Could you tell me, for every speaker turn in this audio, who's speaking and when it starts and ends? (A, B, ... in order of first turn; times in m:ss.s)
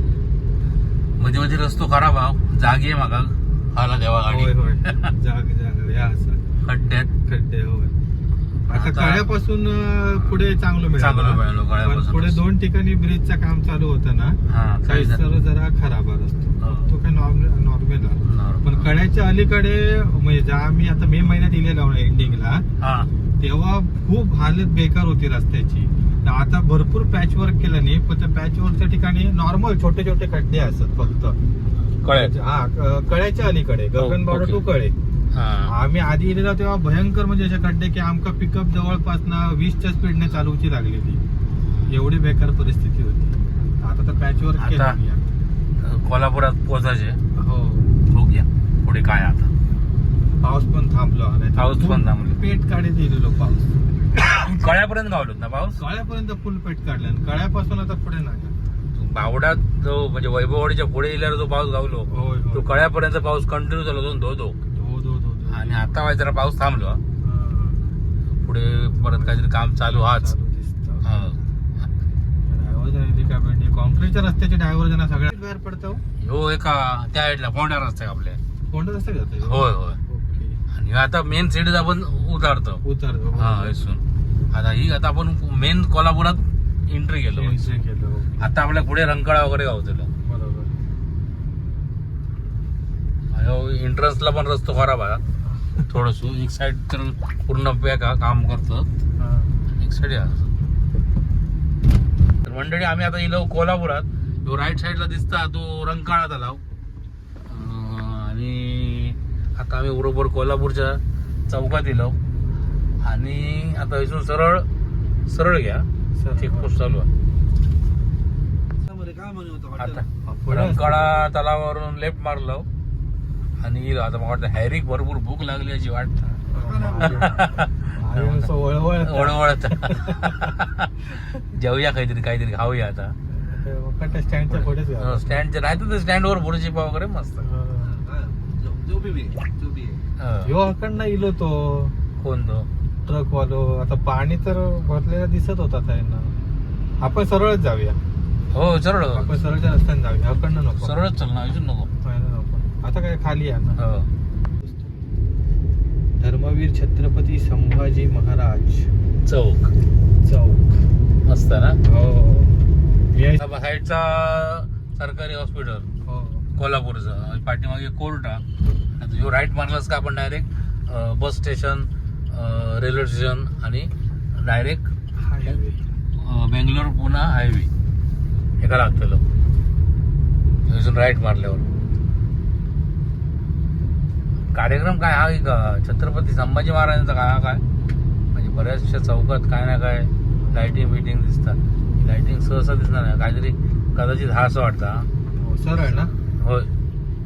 0:01.2-0:05.1 A
0:04.3-0:06.4 B
0:06.6-0:07.1 A
0:07.3-0:08.0 B
0:08.7-0:22.7 B
0:08.7-0:09.3 A
0:10.9-0:12.4 A
0:14.5-0:15.2 A
0:16.6-0:16.9 A
0:18.2-0:18.9 A
0:22.8-0:23.1 A
0:23.4-0:31.4 B
0:32.0-0:32.4 A
0:32.1-0:35.0 B
0:34.0-0:34.6 A
0:35.3-0:35.7 A
0:35.7-0:41.2 B
0:41.9-0:45.3 B
0:44.6-0:45.0 A
0:45.8-0:47.2 A
0:47.4-0:48.0 B
0:48.1-0:49.5 A
0:50.4-0:53.8 B
0:51.6-0:52.4 A
0:54.1-0:55.8 A
0:55.8-0:58.5 B
0:59.0-1:04.6 A
1:02.1-1:02.7 B
1:04.7-1:05.8 B
1:05.5-1:07.0 A
1:07.2-1:07.9 B
1:08.4-1:10.3 A
1:09.0-1:11.5 B
1:11.0-1:11.9 A
1:12.5-1:16.0 B
1:16.2-1:18.4 A
1:18.7-1:20.6 B
1:19.4-1:20.0 A
1:20.7-1:22.8 A
1:22.8-1:23.7 B
1:23.4-1:27.7 A
1:27.3-1:28.5 B
1:28.4-1:30.1 A
1:30.2-1:30.8 B
1:33.3-1:35.2 A
1:35.8-1:38.9 A
1:39.2-1:39.6 B
1:39.8-1:40.5 A
1:42.4-1:46.6 A
1:47.5-1:52.2 A
1:53.0-1:54.7 A
1:55.3-1:55.9 A
1:56.2-1:56.7 B
1:56.4-1:57.1 A
1:58.8-2:00.1 C
1:59.8-2:02.7 A
2:00.2-2:01.3 B
2:03.6-2:06.2 A
2:06.3-2:10.6 B
2:06.5-2:07.5 C
2:07.0-2:13.2 A
2:13.3-2:15.4 B
2:14.5-2:17.5 A
2:17.4-2:17.9 B
2:17.8-2:20.0 C
2:20.2-2:20.6 A
2:20.4-2:22.0 B
2:22.2-2:22.7 A
2:23.0-2:26.3 B
2:27.0-2:28.0 B
2:28.5-2:29.4 A
2:29.1-2:31.0 B
2:30.8-2:31.9 A
2:32.0-2:33.8 B
2:33.8-2:34.1 A
2:36.2-2:38.9 B
2:39.3-2:39.7 A
2:40.2-2:40.7 B
2:41.3-2:41.8 A
2:41.8-2:42.5 B
2:43.1-2:43.4 B
2:43.4-2:45.9 A
2:46.1-2:46.5 B
2:46.6-2:48.4 A
2:49.0-2:54.9 A
2:55.2-2:56.0 B
2:56.2-2:57.7 A
2:58.6-2:59.2 A
3:00.6-3:01.6 A
3:04.5-3:07.6 A
3:08.3-3:15.1 A
3:10.4-3:10.9 B
3:15.4-3:16.1 B
3:16.4-3:16.7 A